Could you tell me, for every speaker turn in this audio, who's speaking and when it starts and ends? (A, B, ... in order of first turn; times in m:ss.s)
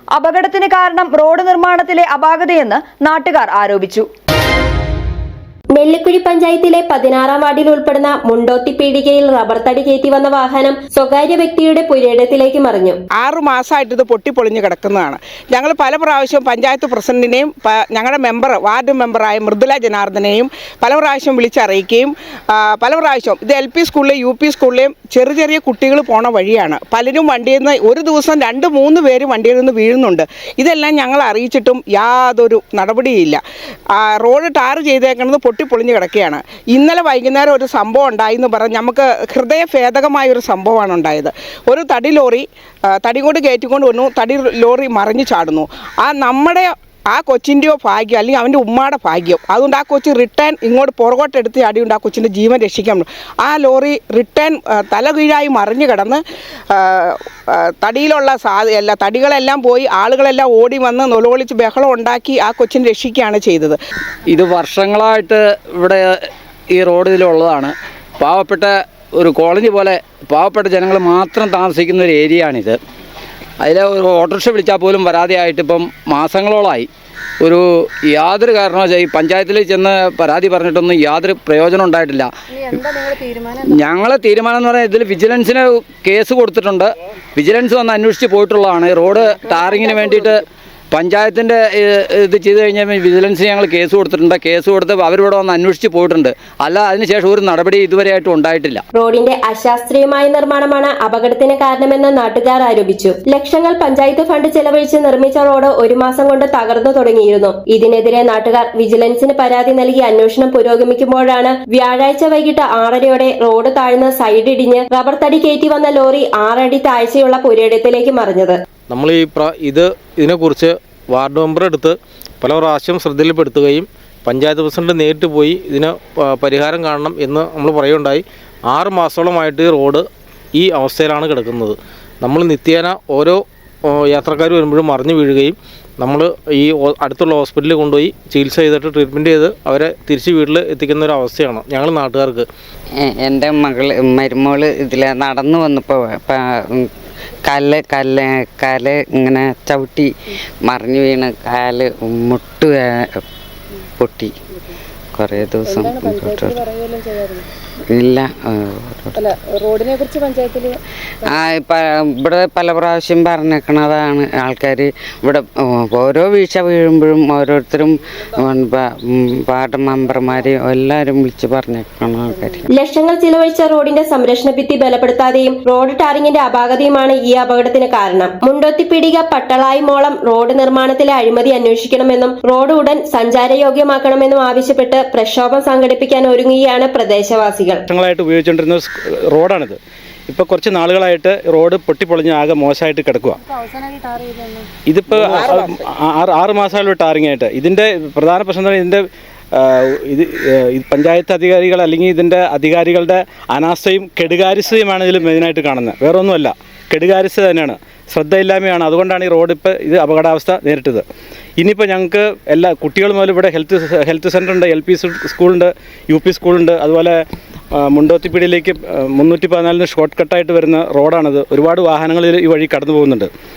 0:00.2-0:04.1 A
0:05.8-0:13.0 B
0:13.2-0:33.4 C
0:34.0-0:56.2 C
0:56.7-1:03.8 C
1:04.3-1:12.8 D
1:13.6-1:16.9 D
1:17.4-1:22.3 D
1:22.6-1:23.8 E
1:23.7-1:38.8 D
1:29.6-1:30.3 E
1:38.9-1:58.6 B
1:58.9-2:22.5 F
2:23.0-2:26.9 G
2:27.5-2:30.1 G
2:30.6-2:33.2 G
2:34.0-2:34.3 G
2:35.2-2:36.6 G
2:35.7-2:37.5 E
2:37.9-2:39.2 G
2:39.2-2:41.3 E
2:41.2-2:52.7 G
2:52.7-3:07.8 B
3:07.9-3:09.8 H
3:10.3-3:13.4 H
3:13.6-3:14.7 E
3:14.9-3:19.0 H
3:15.1-3:15.8 C
3:19.6-3:31.0 H
3:31.6-3:37.2 H
3:37.7-3:43.3 H